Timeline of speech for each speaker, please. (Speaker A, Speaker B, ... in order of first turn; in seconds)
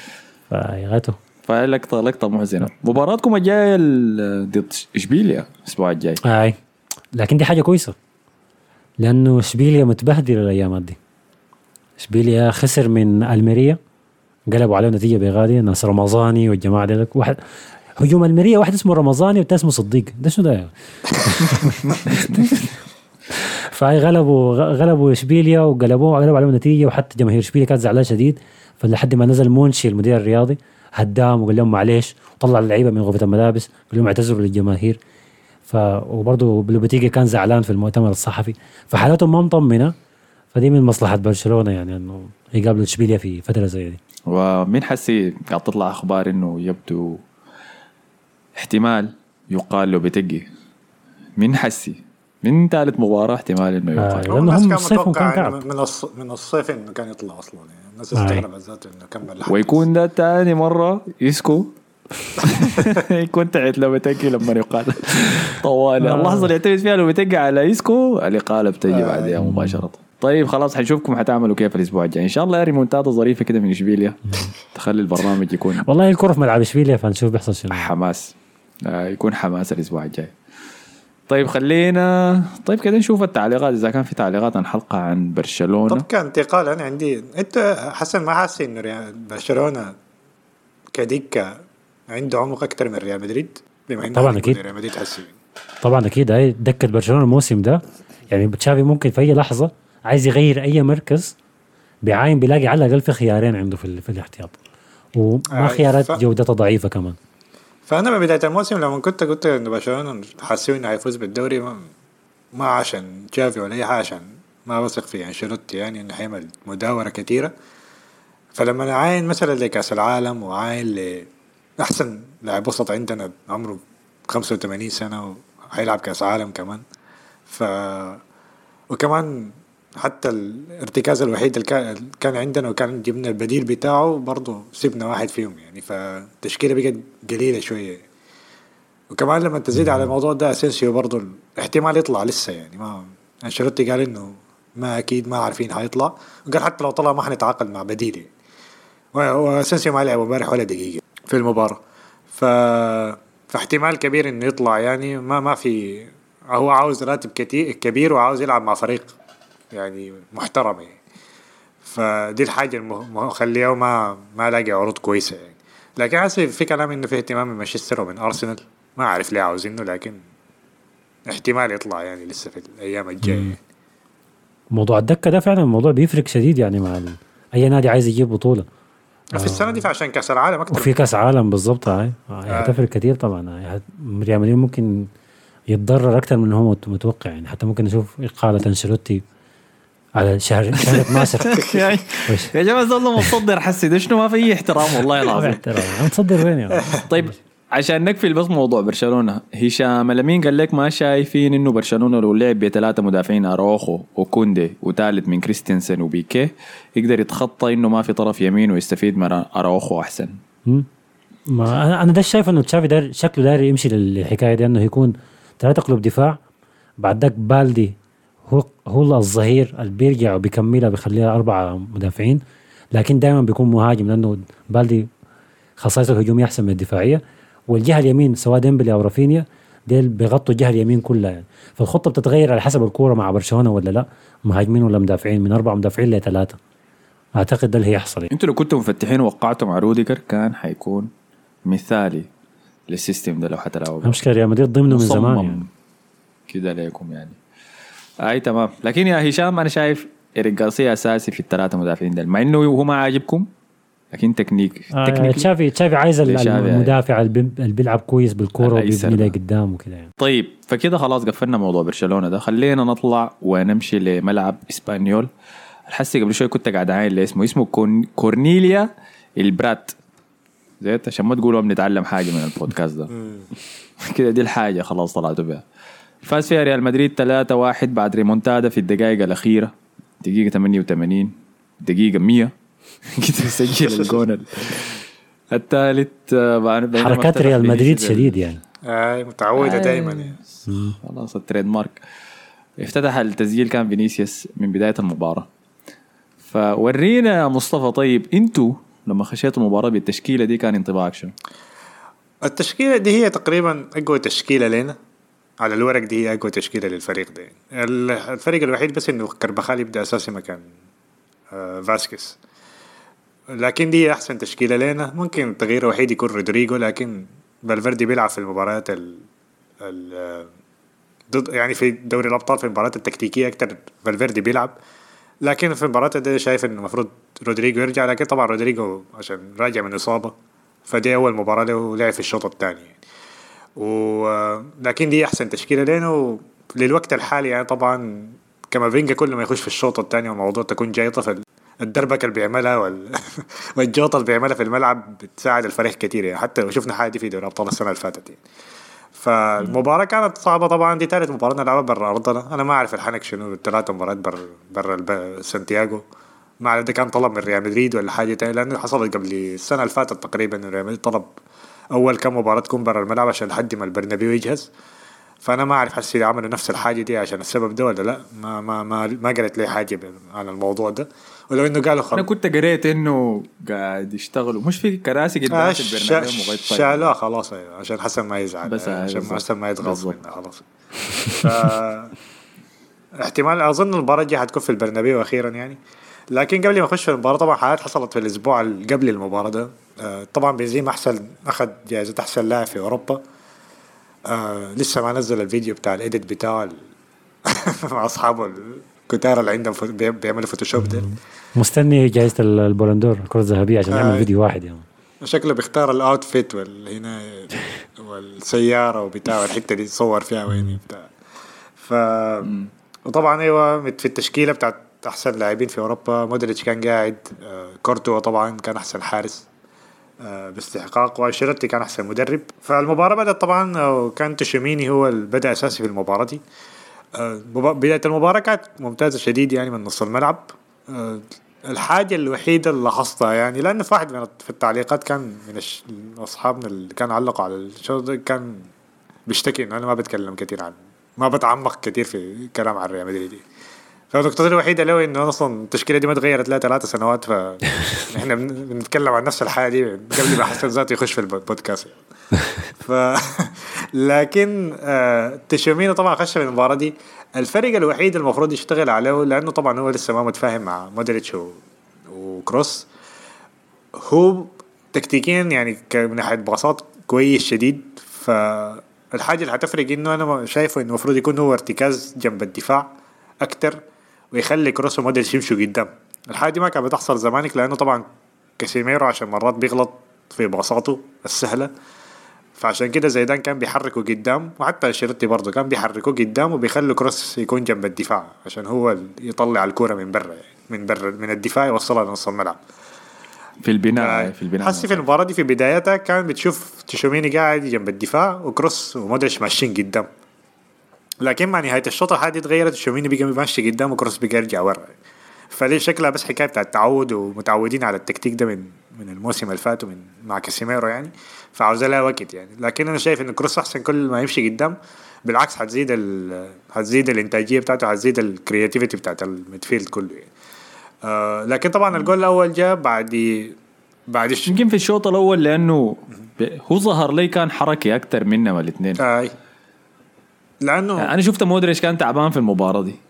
Speaker A: 0.5-1.2, 6.2-6.6, 7.2-8.0, 9.0-11.0, 12.0-13.8, 14.5-17.4, 18.0-22.7, 23.3-35.0, 35.7-39.9, 40.5-44.0, 54.0-55.6, 58.1-58.5, 66.0-66.5, 69.4-69.8, 75.8-77.9, 94.1-94.6, 95.8-101.3, 102.0-104.5, 105.2-107.2, 173.2-173.5, 174.7-178.7, 179.3-179.8, 180.7-185.1, 185.7-189.2, 190.2-191.7, 192.3-192.5, 195.3-197.3, 211.5-216.4, 217.0-217.9, 218.5-222.4, 222.9-225.1, 225.8-236.6, 237.4-238.3, 244.0-245.6, 255.0-260.1, 287.0-288.6, 290.7-291.0, 400.8-404.8, 410.5-410.8
Speaker B: 1.5-6.2, 21.9-22.4, 44.3-47.2, 48.6-50.5, 51.4-54.3, 59.5-61.7, 62.4-75.9, 77.7-78.3, 78.8-80.3, 81.3-86.1, 190.8-195.9, 197.0-210.4, 238.3-241.1, 241.7-242.3, 242.9-244.2, 244.9-245.7, 246.5-247.4, 248.2-253.5, 254.1-255.5, 256.2-257.0, 258.6-259.4, 260.2-265.3, 265.9-268.9, 269.4-269.9, 270.8-273.1, 274.0-275.6, 276.2-281.3, 281.8-282.5, 283.2-285.0, 285.5-288.4, 289.6-292.0, 292.8-295.5, 296.5-301.3, 372.1-377.1, 378.6-380.2, 493.6-495.1, 524.5-529.0, 531.0-533.0
Speaker C: 54.2-59.8, 68.9-69.4, 85.9-89.9, 90.9-91.5, 92.1-95.3, 105.5-106.2, 107.9-111.9, 112.5-117.5, 118.6-121.3, 121.8-126.8, 127.5-128.2, 128.9-138.0, 139.1-148.3, 149.1-151.8, 152.3-159.1, 159.7-161.0, 161.8-170.2, 171.3-173.6, 179.3-181.0, 182.5-182.8, 283.9-284.2, 288.9-290.4, 302.4-305.0, 305.6-310.6, 311.5-312.4, 313.5-319.2, 319.8-320.5, 321.3-324.7, 325.4-330.4, 330.9-333.0, 333.8-348.4, 349.2-356.0, 356.6-361.3, 361.9-364.7, 365.4-372.3, 375.5-380.6, 381.3-382.1, 383.2-385.8, 386.3-393.2, 394.3-396.8, 397.4-401.1, 403.9-404.3, 405.2-411.1, 411.8-412.6, 413.1-419.5, 420.2-426.4, 427.1-438.7, 439.3-443.4, 444.1-452.0, 452.8-462.9, 463.9-472.9, 473.4-473.8, 474.3-478.0, 478.6-481.7, 482.6-492.6, 494.0-500.1, 501.2-504.9, 505.5-514.8, 515.3-520.3, 521.0-523.6, 524.1-524.6, 529.0-529.4, 530.6-531.1